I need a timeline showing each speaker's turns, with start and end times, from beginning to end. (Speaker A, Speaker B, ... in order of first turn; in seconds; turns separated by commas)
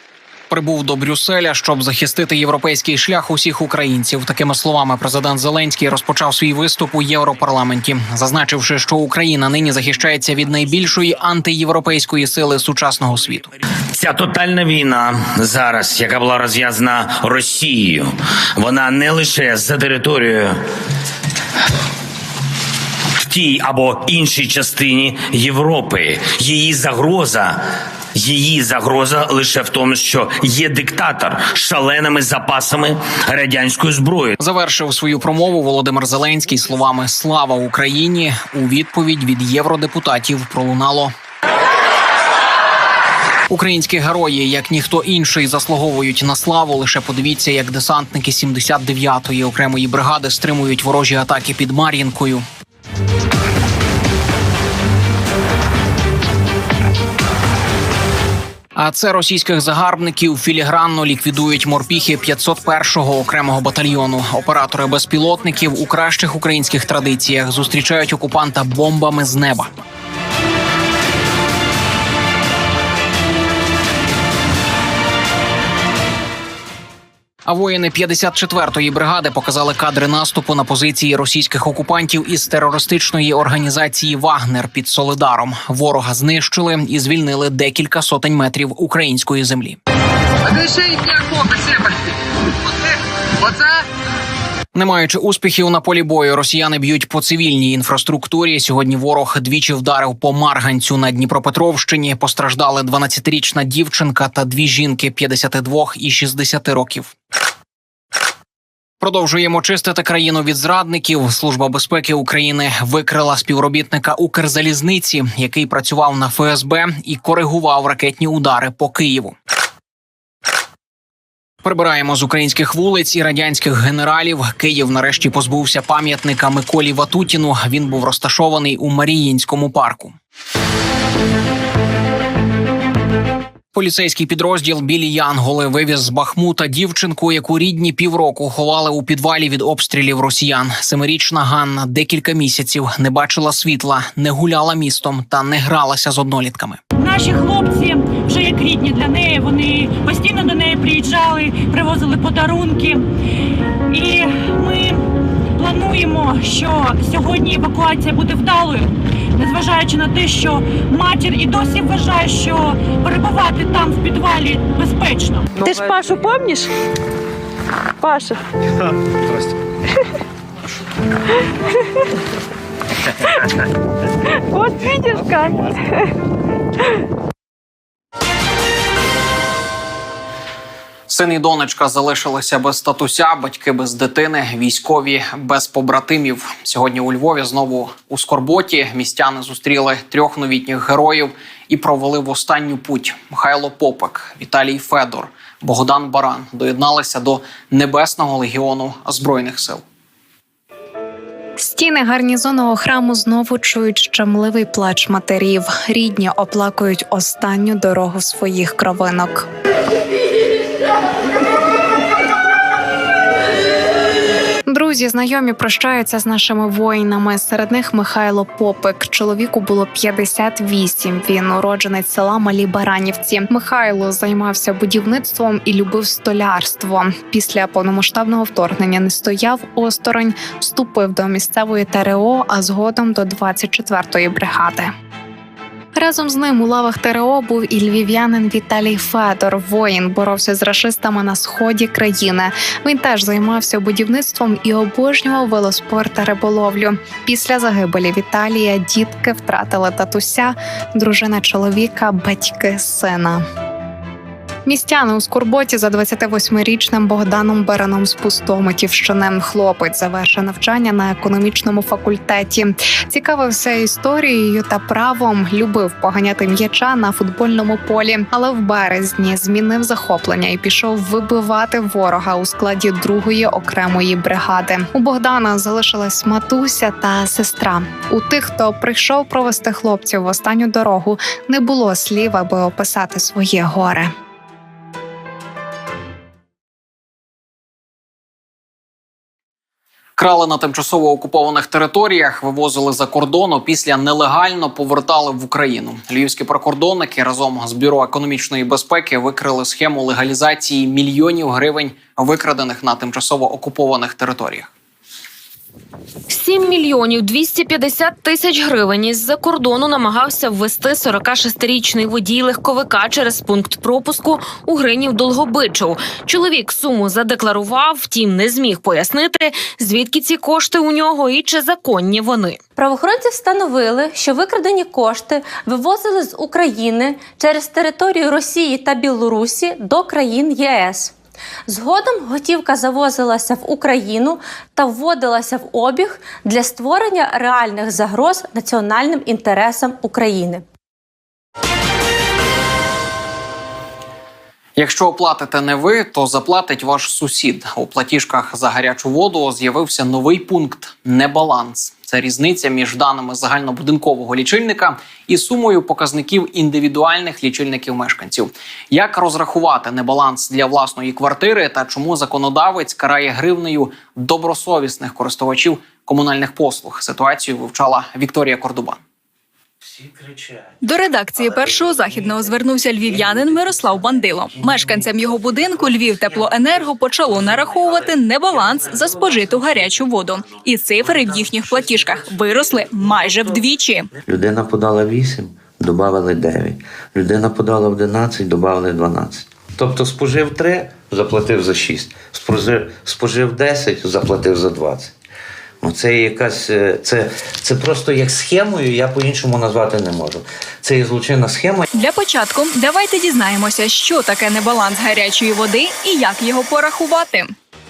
Speaker A: 0.5-13.5, Speaker B: 13.9-20.6, Speaker B: 23.2-27.6, Speaker B: 28.1-34.3, Speaker A: 34.4-41.1, Speaker A: 43.5-52.5, Speaker A: 58.8-69.7, Speaker A: 77.5-89.8, Speaker A: 94.7-107.1, Speaker A: 109.0-119.4, Speaker A: 121.6-130.2, Speaker A: 133.7-146.8, Speaker C: 147.0-153.1, Speaker C: 153.9-155.0, Speaker C: 155.6-165.5, Speaker D: 165.6-166.7, Speaker D: 168.0-168.4, Speaker D: 174.5-175.7, Speaker A: 181.1-199.8, Speaker E: 201.6-209.5, Speaker E: 214.7-234.9, Speaker E: 235.9-253.4, Speaker E: 254.7-284.1, Speaker A: 290.2-304.7, Speaker F: 306.3-322.6, Speaker G: 322.8-331.1, Speaker G: 331.7-340.6, Speaker A: 344.8-369.0, Speaker H: 369.8-370.7, Speaker I: 370.8-384.1, Speaker H: 373.4-374.2, Speaker H: 375.4-376.2, Speaker H: 384.2-395.1, Speaker H: 395.8-401.9, Speaker I: 401.9-407.5